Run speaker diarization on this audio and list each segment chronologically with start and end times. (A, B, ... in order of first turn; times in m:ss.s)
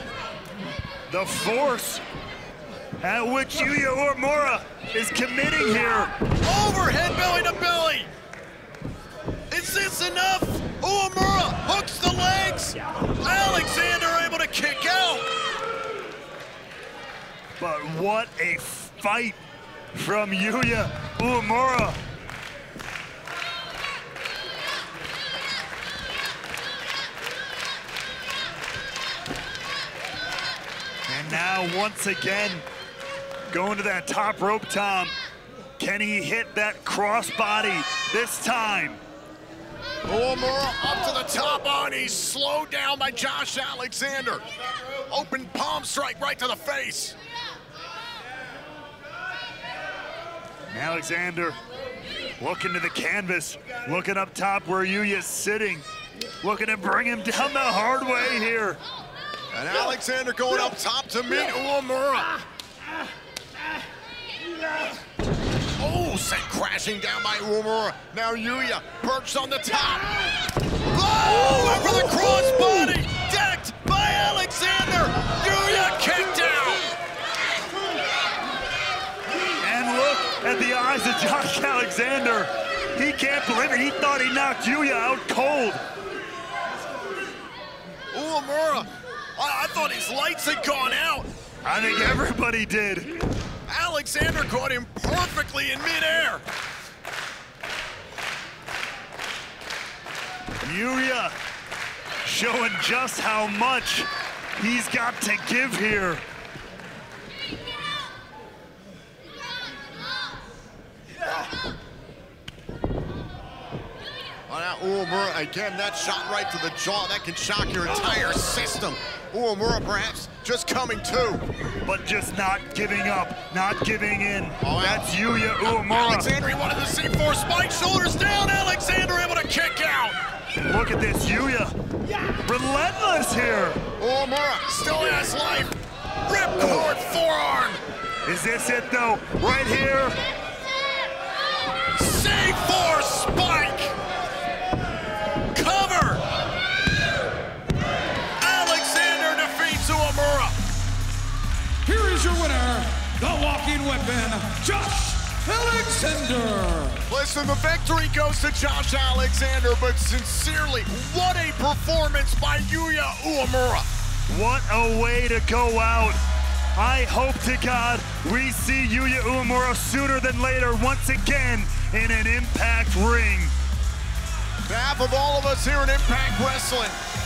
0:01.1-0:02.0 A
0:03.0-0:06.1 A
0:06.4-0:08.1 B
0:09.5-0:15.3 B
0:17.6-0:19.4 A
0:19.9-0:22.0 A
0:31.1-0:32.7 A
0:33.5-0:35.1 A
0:35.8-0:39.0 A
0:40.1-0:44.4 B
0:45.1-0:47.2 B
0:50.7-0:51.6 A
0:52.4-0:55.8 A
0:56.4-0:58.8 A
0:59.5-1:02.4 B
1:05.8-1:10.3 B
1:10.8-1:16.9 B
1:11.6-1:12.9 A
1:19.6-1:25.8 A
1:28.1-1:31.3 B
1:31.6-1:33.2 A
1:33.7-1:36.4 B
1:40.6-1:41.3 A
1:42.2-1:46.2 A
1:54.5-2:01.4 B
2:01.8-2:06.3 A
2:04.6-2:10.2 B
2:10.6-2:11.7 A
2:12.4-2:13.8 A
2:14.0-2:17.8 B
2:18.2-2:20.2 A
2:22.0-2:23.9 B
2:25.5-2:26.2 B
2:28.4-2:30.6 B
2:31.8-2:37.0 C
2:37.1-2:43.9 B
2:44.3-2:46.2 A
2:46.8-2:53.5 A
2:54.7-2:57.0 B